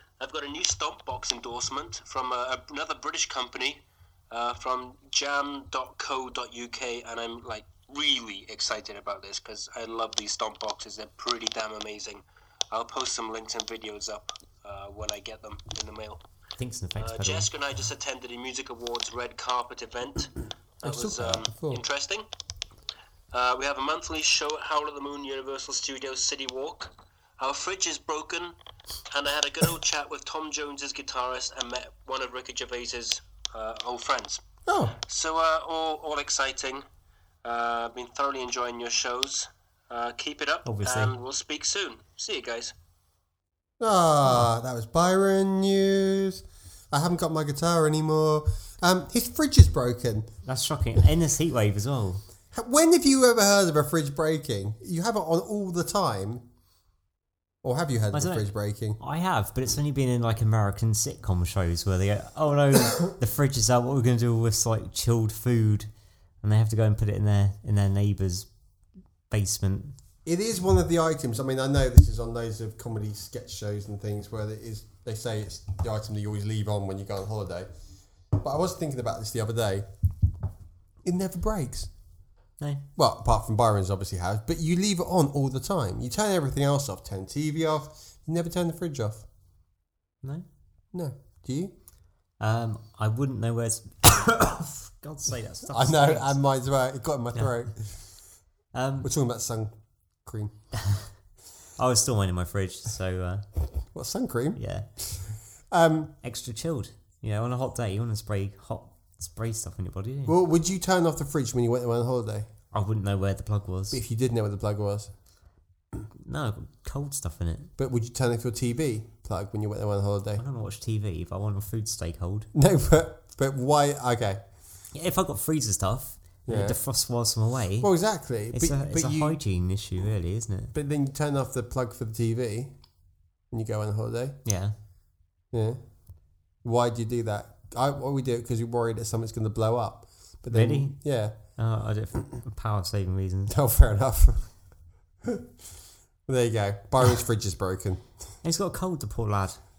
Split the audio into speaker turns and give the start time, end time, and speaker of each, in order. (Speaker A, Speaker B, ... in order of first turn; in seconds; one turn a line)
Speaker A: 0.2-16.2
Speaker B: 16.6-17.5
Speaker A: 17.0-22.2
Speaker C: 20.8-21.8
Speaker A: 23.3-28.5
Speaker A: 29.1-34.4
Speaker C: 34.6-35.0
Speaker A: 35.0-36.8
Speaker A: 37.4-42.7
Speaker B: 40.6-41.1
Speaker C: 43.8-50.3
Speaker B: 50.4-52.2
Speaker C: 52.5-56.4
Speaker C: 57.6-59.0
Speaker B: 58.1-65.9
Speaker B: 66.4-68.5
Speaker B: 69.3-70.0
Speaker C: 70.2-77.7
Speaker C: 78.3-79.9
Speaker C: 81.0-81.9
Speaker C: 83.0-89.2
Speaker C: 90.9-91.7
Speaker B: 92.4-96.4
Speaker C: 95.7-98.0
Speaker B: 98.7-99.1
Speaker C: 99.0-100.5
Speaker B: 100.8-101.1
Speaker B: 101.8-103.5
Speaker C: 103.9-106.1
Speaker B: 104.5-104.9
Speaker B: 106.2-110.3
Speaker C: 110.2-112.5
Speaker B: 112.7-114.0
Speaker C: 113.9-115.1
Speaker B: 116.2-117.7
Speaker C: 117.8-120.4
Speaker B: 120.4-122.5
Speaker C: 122.5-124.4
Speaker B: 124.9-127.9
Speaker C: 126.5-126.8
Speaker C: 127.8-129.4
Speaker B: 128.5-130.7
Speaker C: 130.7-132.7
Speaker C: 133.5-134.4
Speaker B: 134.4-134.7
Speaker C: 135.5-135.8
Speaker C: 136.6-141.3
Speaker B: 140.5-143.5
Speaker C: 143.5-144.5
Speaker C: 146.2-148.1
Speaker B: 148.4-149.6